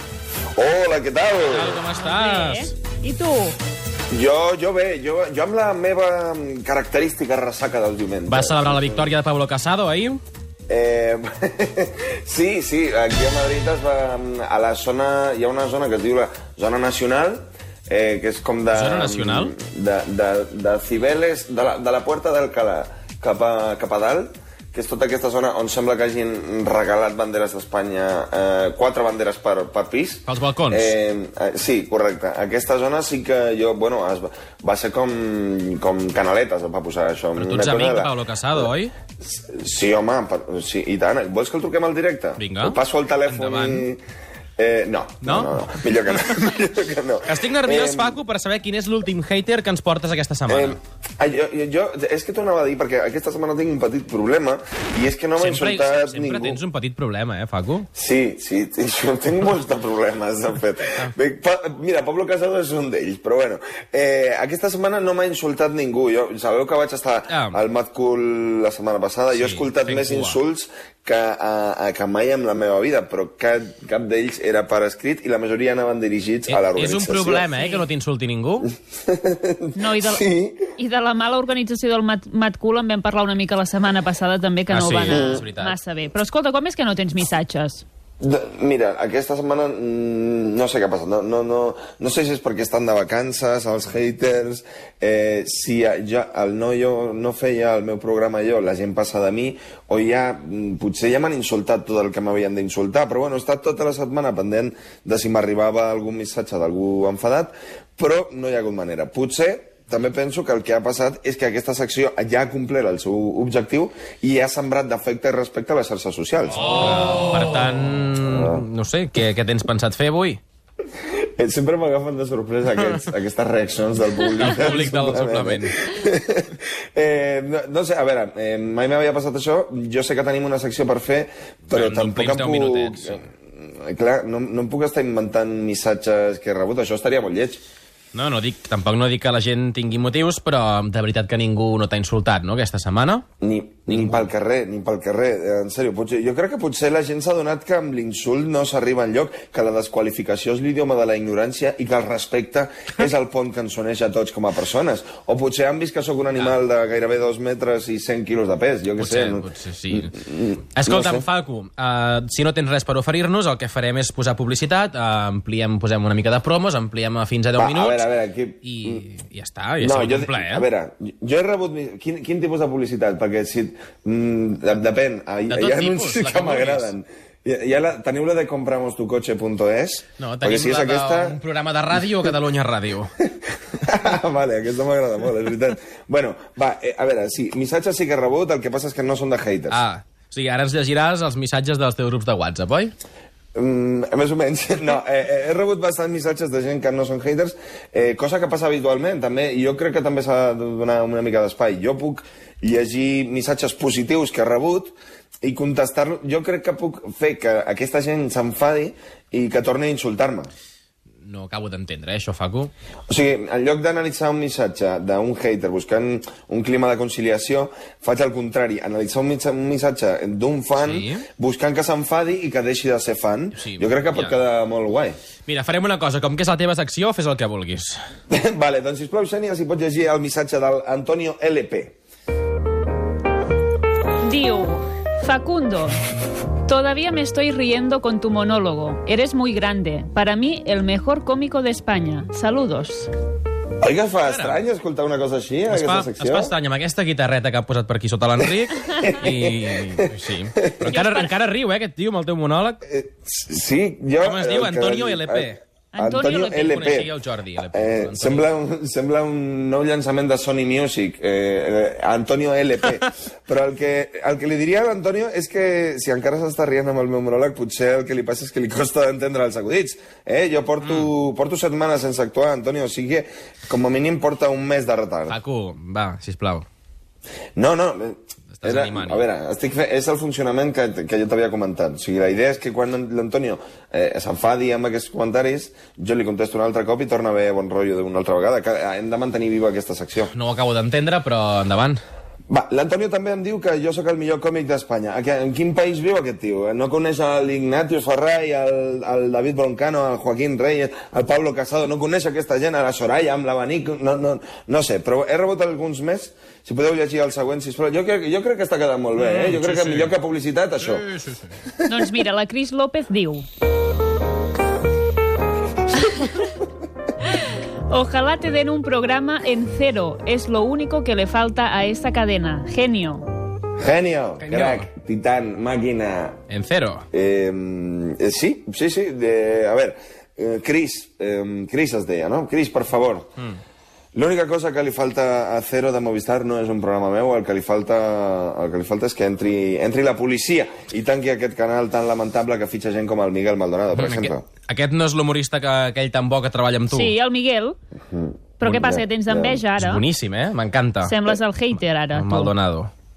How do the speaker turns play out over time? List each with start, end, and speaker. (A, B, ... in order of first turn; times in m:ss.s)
0:00.5-0:01.8 A
0:01.4-0:02.7 B
0:02.0-0:03.6 C
0:04.1-0:09.1 A
0:08.3-0:10.2 B
0:10.7-0:38.1 A
0:18.7-0:19.5 B
0:30.3-0:30.9 B
0:37.4-0:38.9 B
0:39.2-0:44.0 A
0:42.4-0:43.9 B
0:44.6-0:48.2 A
0:45.2-0:46.4 B
0:47.2-0:50.8 B
0:50.5-0:56.6 A
0:55.4-0:57.9 B
0:57.9-1:17.5 A
1:07.3-1:07.6 B
1:09.3-1:10.4 B
1:16.5-1:18.7 B
1:17.5-1:17.8 C
1:19.0-1:20.7 A
1:19.8-1:20.2 C
1:20.8-1:27.8 C
1:24.7-1:25.8 B
1:25.1-1:25.4 A
1:28.2-1:56.7 A
1:56.6-2:00.4 B
1:58.2-1:58.6 A
2:01.4-2:17.6 A
2:04.4-2:05.7 B
2:11.7-2:13.2 B
2:18.1-2:23.2 B
2:23.4-2:41.2 A
2:23.9-2:24.3 B
2:39.0-2:40.2 B
2:40.7-2:48.0 B
2:47.6-2:49.0 A
2:48.6-2:50.6 B
2:49.8-3:01.4 A
2:55.5-2:56.9 B
3:00.2-3:03.1 B
3:03.2-3:09.8 A
3:09.7-3:12.9 B
3:13.5-3:30.5 A
3:31.2-3:32.7 B
3:33.1-3:45.2 A
3:40.8-3:41.2 B
3:43.6-3:44.3 B
3:45.5-3:48.0 B
3:48.3-3:52.0 A
3:54.2-3:56.0 C
3:56.6-4:03.1 C
4:03.8-4:06.5 A
4:04.2-4:04.6 B
4:05.7-4:12.8 B
4:08.4-4:10.9 A
4:10.9-4:11.3 C
4:12.8-4:17.1 A
4:14.2-4:15.6 B
4:15.9-4:16.8 C
4:16.6-4:18.5 B
4:17.7-4:35.4 A
4:30.8-4:31.1 B
4:35.3-4:36.6 B
4:37.6-4:50.3 A
4:38.5-4:39.2 B
4:50.3-4:52.0 B
4:52.5-5:11.1 A
5:09.2-5:10.1 B
5:10.8-5:11.5 B
5:11.8-5:13.4 C
5:16.0-5:16.4 C
5:17.3-5:23.2 C
5:23.8-5:26.4 A
5:24.4-5:24.8 B
5:26.5-5:27.0 B
5:27.1-5:33.3 A
5:34.1-5:44.4 A
5:43.9-5:47.1 B
5:46.9-5:47.8 C
5:48.1-5:49.6 A
5:48.6-5:50.0 C
5:49.8-5:51.1 B
5:51.0-5:52.5 C
5:52.1-5:52.9 B